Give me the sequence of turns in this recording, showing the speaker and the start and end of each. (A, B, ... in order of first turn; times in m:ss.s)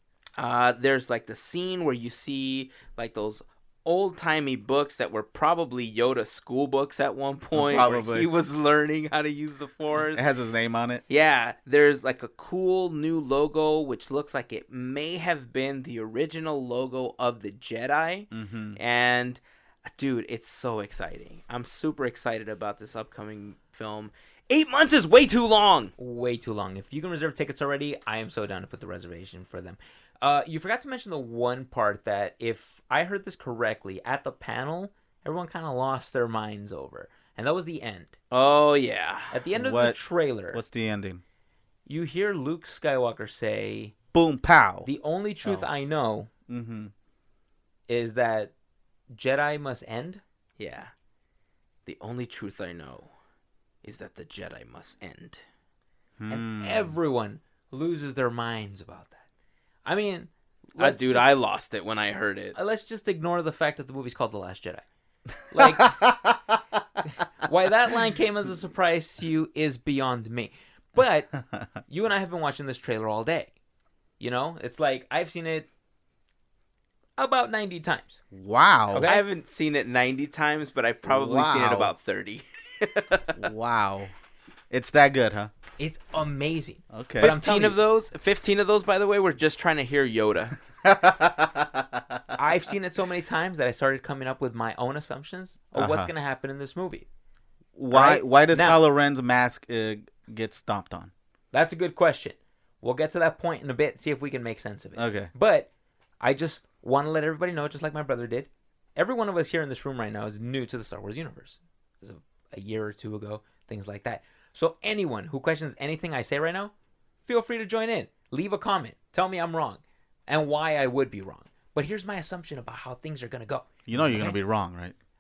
0:00.4-0:10.3 A
0:07.6-0:08.3 B
0:10.0-0:11.0 B
0:11.1-0:25.9 A
0:18.3-0:18.8 B
0:26.0-0:38.1 C
0:38.3-0:39.4 A
0:39.3-0:40.6 C
0:39.5-0:40.0 B
0:40.5-0:41.2 B
0:41.9-0:43.9 C
0:44.1-0:44.9 B
0:44.8-0:46.3 C
0:46.5-0:46.9 B
0:47.9-0:48.5 C
0:49.1-0:50.2 C
0:50.6-0:50.9 A
0:51.9-0:53.1 A
0:53.8-0:55.4 A
0:56.2-0:57.0 B
0:56.3-0:59.2 C
0:59.8-1:01.3 C
1:00.8-1:02.6 A
1:02.6-1:04.8 C
1:05.5-1:06.2 C
1:05.6-1:06.4 B
1:07.4-1:13.5 C
1:14.2-1:15.7 C
1:17.2-1:18.2 C
1:18.3-1:19.1 B
1:18.9-1:19.3 C
1:19.1-1:23.4 A
1:21.0-1:21.9 B
1:23.4-1:24.1 B
1:24.7-1:25.5 B
1:25.8-1:27.8 C
1:26.9-1:27.4 B
1:27.2-1:30.6 A
1:30.8-1:32.4 B
1:32.4-1:37.1 C
1:35.8-1:36.1 B
1:37.8-1:41.1 B
1:37.9-1:38.8 C
1:41.5-1:45.7 C
1:45.0-1:45.3 B
1:46.2-1:56.7 C
1:57.3-2:04.4 C
2:03.9-2:05.0 B